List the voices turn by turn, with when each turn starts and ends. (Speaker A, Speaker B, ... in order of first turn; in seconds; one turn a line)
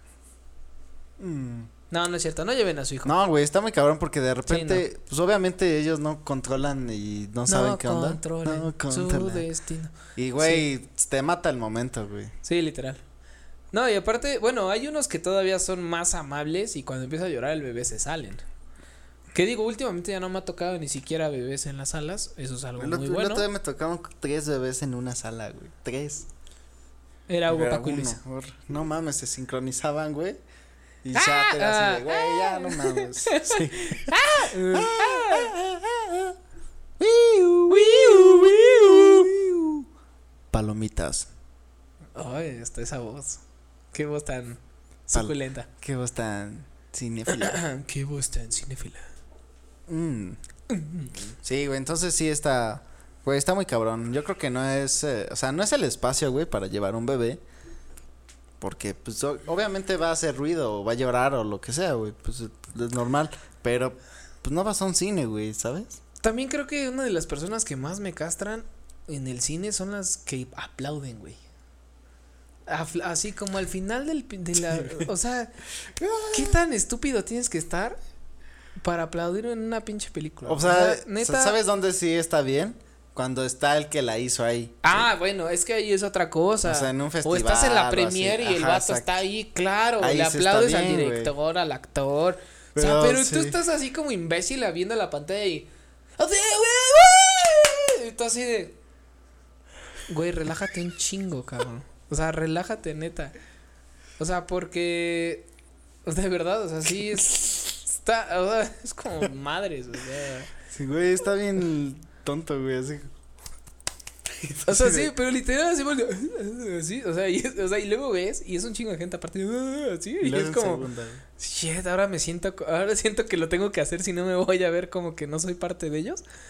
Speaker A: 1.2-1.7
Speaker B: 1.9-3.1
Speaker A: 3.0-9.4
Speaker B: 4.5-4.8
Speaker B: 7.5-10.7
Speaker A: 10.2-12.3
Speaker B: 12.4-13.0
Speaker B: 13.7-18.4
Speaker B: 19.3-23.5
Speaker A: 22.8-26.3
Speaker B: 27.3-28.2
Speaker A: 27.5-30.4
Speaker A: 31.0-36.4
Speaker B: 31.1-35.5
Speaker A: 37.0-39.9
Speaker B: 37.7-39.3
Speaker A: 40.5-41.3
Speaker B: 42.2-43.4
Speaker B: 43.9-45.7
Speaker A: 45.1-47.6
Speaker B: 47.3-49.0
Speaker A: 49.9-50.4
Speaker B: 50.7-51.3
Speaker A: 51.4-57.4
Speaker A: 58.6-66.0
Speaker B: 66.2-71.4
Speaker B: 72.7-75.5
Speaker A: 74.7-75.1
Speaker A: 75.9-76.6
Speaker B: 76.3-78.0
Speaker B: 78.8-81.6
Speaker A: 80.5-85.1
Speaker B: 84.8-95.7
Speaker A: 86.7-89.1
Speaker A: 90.0-91.3
Speaker A: 92.8-93.5
Speaker B: 96.2-98.8
Speaker B: 100.1-103.3
Speaker B: 104.2-105.5
Speaker B: 106.1-110.5
Speaker A: 110.7-113.1
Speaker A: 114.3-115.1
Speaker B: 114.7-120.9
Speaker A: 120.2-121.2
Speaker B: 121.4-126.2